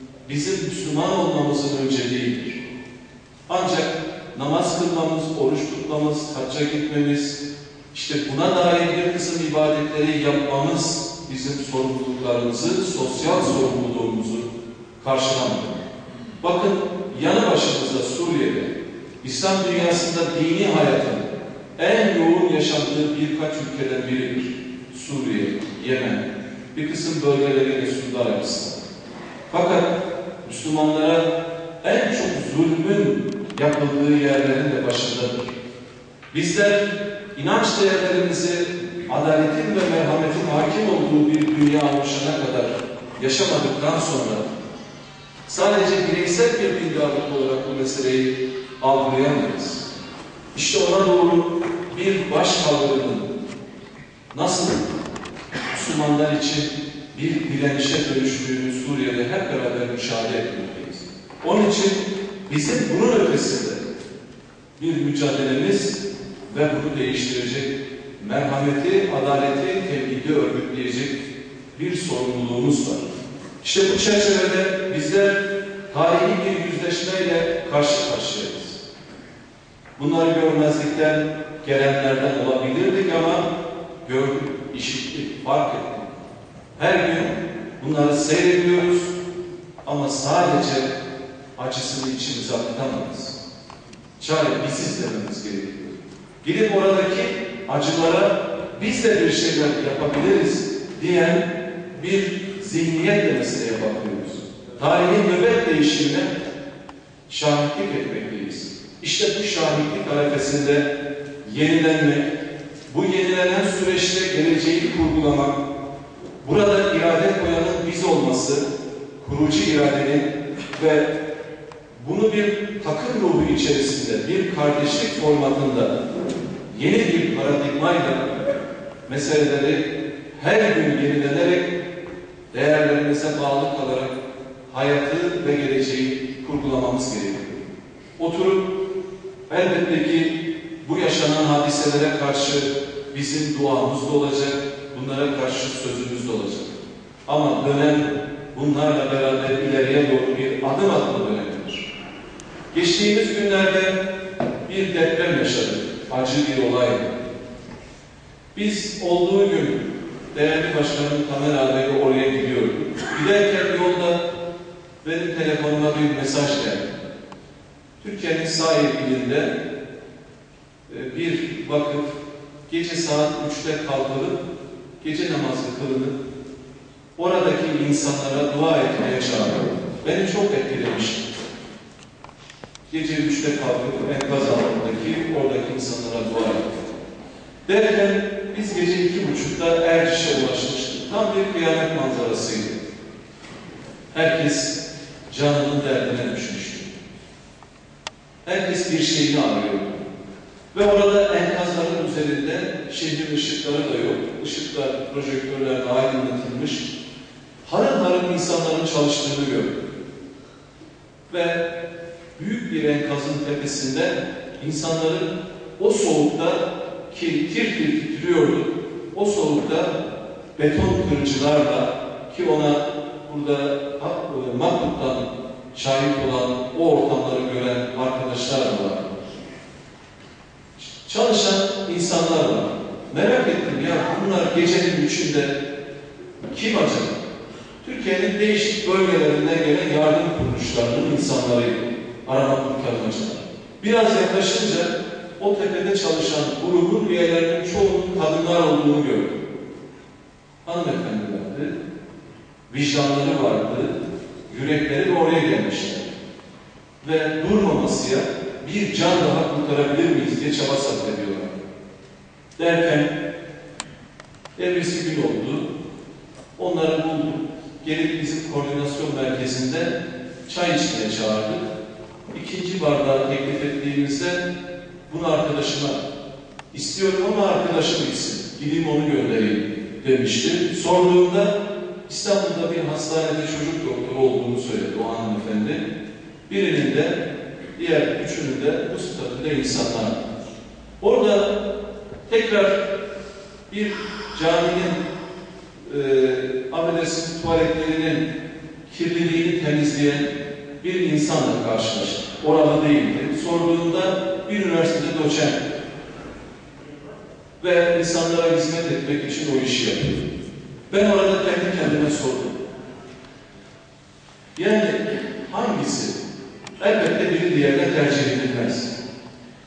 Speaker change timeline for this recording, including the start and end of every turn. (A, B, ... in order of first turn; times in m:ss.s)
0:00.2-0:02.6 A
0:03.5-0:07.4 A
0:07.9-0:14.4 A
0:15.0-0:15.8 A
0:16.4-0:28.8 A
0:29.5-0:31.2 A
0:31.8-0:35.5 A
0:36.3-0:44.5 A
0:45.4-0:49.9 A
0:50.5-0:53.3 A
0:54.3-0:54.8 A
0:55.7-1:03.8 A
1:04.8-1:11.2 A
1:11.7-1:13.1 A
1:13.6-1:18.8 A
1:20.0-1:23.4 A
1:24.0-1:26.2 A
1:26.8-1:29.1 A
1:29.8-1:30.9 A
1:31.6-1:33.4 A
1:34.2-1:46.3 A
1:47.3-1:50.9 A
1:51.4-1:52.3 A
1:52.9-1:55.6 A
1:56.4-1:58.6 A
1:59.2-2:01.1 A
2:02.0-2:05.9 A
2:06.7-2:08.4 A
2:09.0-2:11.7 A
2:12.5-2:14.2 A
2:14.7-2:17.6 A
2:18.2-2:18.7 A
2:19.5-2:31.9 A
2:32.7-2:33.9 A
2:34.6-2:37.1 A
2:38.5-2:44.2 A
2:45.0-2:47.0 A
2:48.0-2:49.5 A
2:50.9-2:52.2 A
2:52.7-2:54.4 A
2:55.0-2:56.2 A
2:57.2-3:01.2 A
3:02.9-3:06.7 A
3:07.6-3:12.8 A
3:14.1-3:16.9 A
3:18.4-3:20.0 A
3:20.7-3:26.9 A
3:27.6-3:29.8 A
3:31.3-3:31.6 A
3:32.4-3:39.9 A
3:40.6-3:49.1 A
3:50.8-3:55.5 A
3:56.5-3:57.2 A
3:57.8-4:09.4 A
4:10.6-4:11.7 A
4:12.7-4:14.0 A
4:14.5-4:16.1 A
4:17.0-4:21.6 A
4:22.6-4:23.1 A
4:24.6-4:25.6 A
4:26.6-4:29.9 A
4:30.4-4:31.6 A
4:32.3-4:34.4 A
4:35.1-4:36.0 A
4:36.7-4:41.5 A
4:42.1-4:45.8 A
4:46.5-4:47.2 A
4:47.8-4:50.2 A
4:51.0-4:51.5 A
4:52.3-4:52.8 A
4:53.7-4:55.0 A
4:55.8-4:58.2 A
4:58.9-5:00.3 A
5:00.8-5:05.6 A
5:07.6-5:10.2 A
5:10.9-5:12.6 A
5:14.6-5:16.2 A
5:16.8-5:18.9 A